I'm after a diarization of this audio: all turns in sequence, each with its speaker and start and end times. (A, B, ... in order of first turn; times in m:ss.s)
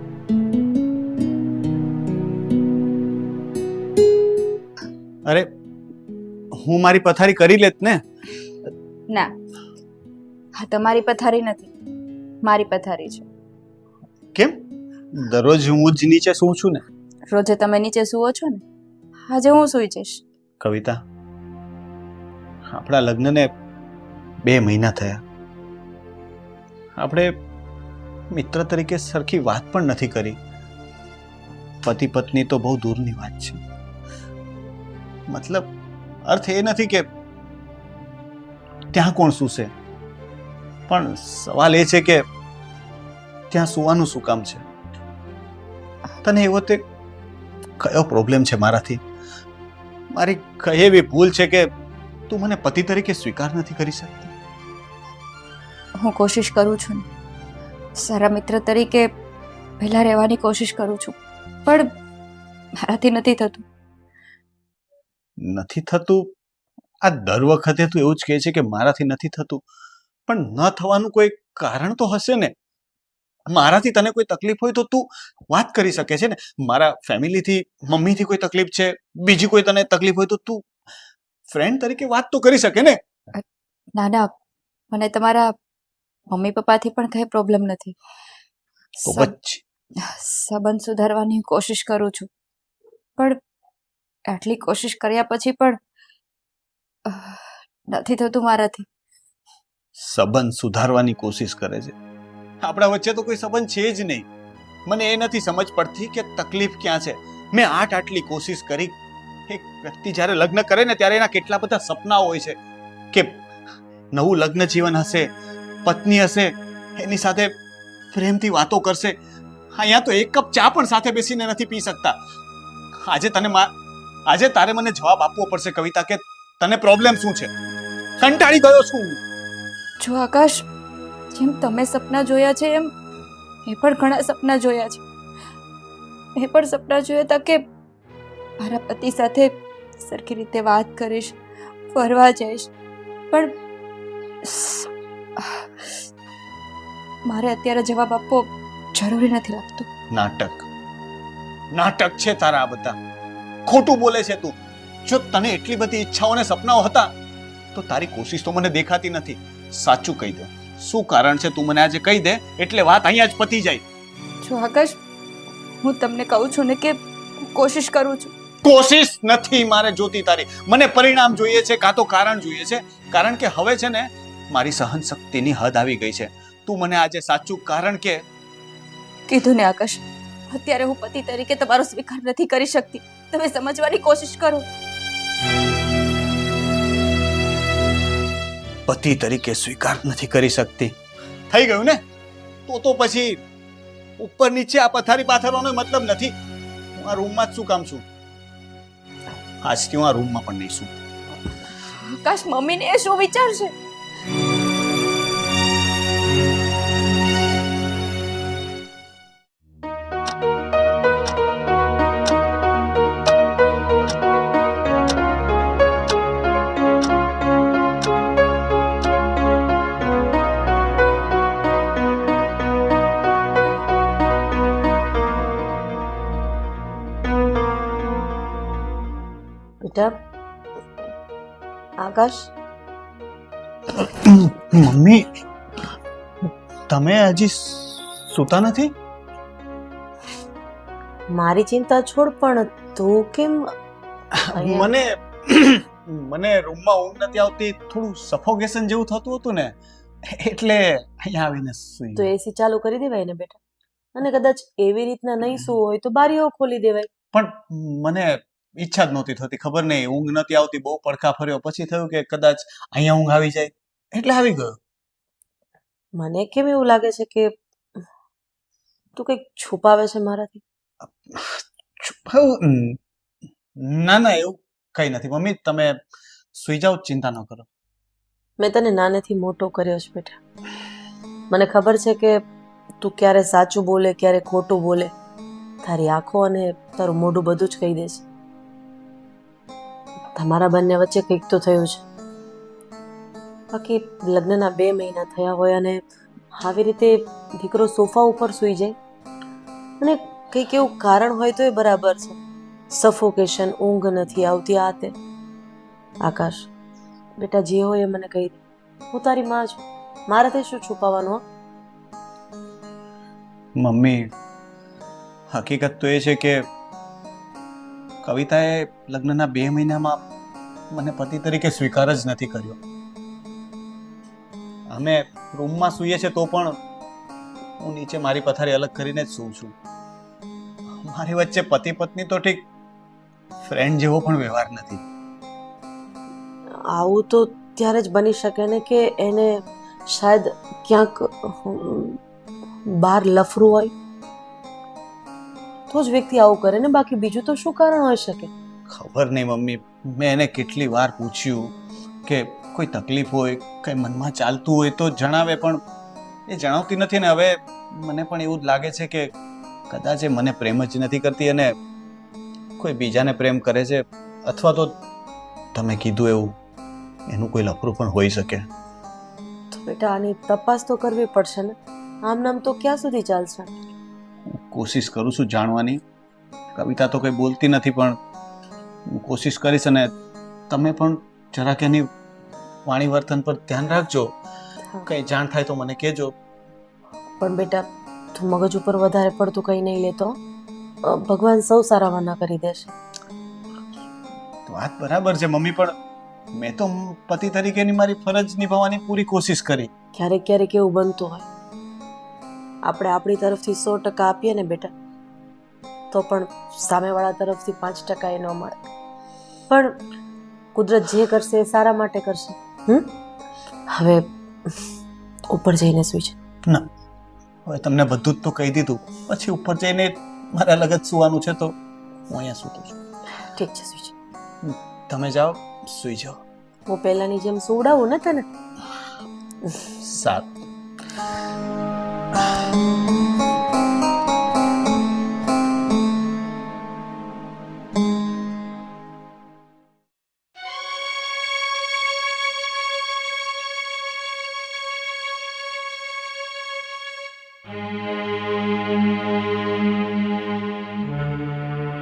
0:05.2-0:05.5 A
0:06.5-0:08.0 A
0:10.6-0:11.7 B
0:12.4-0:13.2 B
0:14.3-0:16.8 A
0:17.3-0:18.6 B
0:19.3-0:20.2 B
0:20.6-0:21.0 A
0:22.7-0:23.5 A
0:24.4-0:25.2 A
0:27.0-0:27.4 A
0:28.3-0:30.4 A
0:31.8-0:33.6 A
0:35.3-0:35.7 A
0:36.3-0:37.1 A
0:38.9-0:39.7 A
0:40.9-0:42.2 A
0:43.5-0:44.6 A
0:46.2-0:46.8 A
0:47.8-0:49.0 A
0:50.1-0:51.7 A
0:52.3-0:54.3 A
0:56.0-0:57.0 B
0:58.0-0:59.1 B
0:59.8-1:01.9 B
1:02.8-1:03.6 B
1:05.4-1:06.3 A
1:07.0-1:09.6 A
1:10.3-1:12.5 A
1:13.5-1:20.7 A
1:21.5-1:23.0 A
1:23.3-1:24.3 B
1:24.9-1:25.5 B
1:26.3-1:28.0 B
1:29.0-1:29.3 B
1:29.1-1:29.6 A
1:30.0-1:32.3 B
1:34.3-1:35.8 B
1:37.1-1:38.9 B
1:40.0-1:42.0 A
1:42.6-1:44.3 A
1:44.9-1:49.0 A
1:49.5-1:52.6 A
1:53.1-1:53.4 A
1:54.1-1:55.3 A
1:55.8-1:57.5 A
1:58.1-1:59.2 A
1:59.7-2:02.2 A
2:03.0-2:03.7 A
2:04.3-2:07.5 A
2:08.2-2:09.2 A
2:10.0-2:10.6 B
2:11.3-2:12.9 B
2:13.7-2:15.0 B
2:16.4-2:17.6 B
2:18.6-2:21.4 B
2:21.9-2:22.7 B
2:24.4-2:26.0 B
2:27.3-2:29.9 B
2:30.1-2:30.6 A
2:31.7-2:33.0 A
2:33.7-2:37.1 A
2:37.7-2:43.8 A
2:44.4-2:45.0 B
2:45.8-2:48.3 B
2:48.6-2:58.2 A
2:59.3-3:04.6 B
3:08.9-3:11.0 A
3:11.5-3:12.0 A
3:12.7-3:13.4 A
3:14.2-3:16.4 A
3:17.0-3:18.0 A
3:19.6-3:21.0 A
3:22.2-3:23.7 B
3:49.8-3:50.2 C
3:52.0-3:52.5 C
3:53.9-3:55.2 A
3:56.9-3:58.9 A
4:01.3-4:03.7 C
4:04.3-4:12.3 A
4:04.5-4:04.9 C
4:12.2-4:13.6 C
4:14.2-4:17.1 C
4:17.3-4:24.8 A
4:26.2-4:27.5 C
4:29.2-4:30.6 C
4:31.0-4:33.0 A
4:33.8-4:36.0 A
4:36.5-4:37.7 A
4:38.6-4:40.4 C
4:41.5-4:42.4 C
4:43.0-4:45.1 C
4:45.8-4:48.2 C
4:50.4-4:52.0 C
4:53.7-4:56.0 C
4:56.6-4:59.0 C
5:00.0-5:02.4 C
5:02.9-5:05.2 C
5:06.2-5:06.7 C
5:07.4-5:08.6 C
5:09.1-5:11.4 C
5:13.8-5:14.3 A
5:15.5-5:16.7 A
5:18.2-5:20.2 A
5:20.9-5:22.8 A
5:24.9-5:26.8 A
5:27.8-5:29.8 A
5:31.0-5:32.7 A
5:33.6-5:35.0 A
5:36.9-5:42.2 C
5:42.9-5:43.9 C
5:45.9-5:48.5 C
5:48.9-5:51.7 A
5:52.3-5:55.8 A
5:56.5-5:59.3 A
5:59.9-6:01.7 A
6:02.8-6:05.0 A
6:05.7-6:06.6 A
6:07.3-6:08.7 A
6:09.7-6:13.7 C
6:14.5-6:16.0 A
6:16.8-6:18.2 A
6:19.1-6:20.1 A
6:20.7-6:22.1 A
6:22.9-6:24.3 A
6:25.1-6:26.4 A
6:27.4-6:30.4 C
6:31.0-6:32.9 C
6:34.7-6:35.9 A
6:36.5-6:39.9 A
6:40.2-6:41.5 C
6:42.9-6:44.9 C
6:46.1-6:48.8 C
6:49.7-6:50.0 C
6:50.8-6:53.1 C
6:53.9-6:54.8 C
6:55.5-6:56.4 C
6:57.6-7:01.8 A
7:02.3-7:03.0 A
7:03.6-7:04.1 C
7:04.6-7:06.4 A
7:06.9-7:08.4 C
7:10.0-7:10.6 A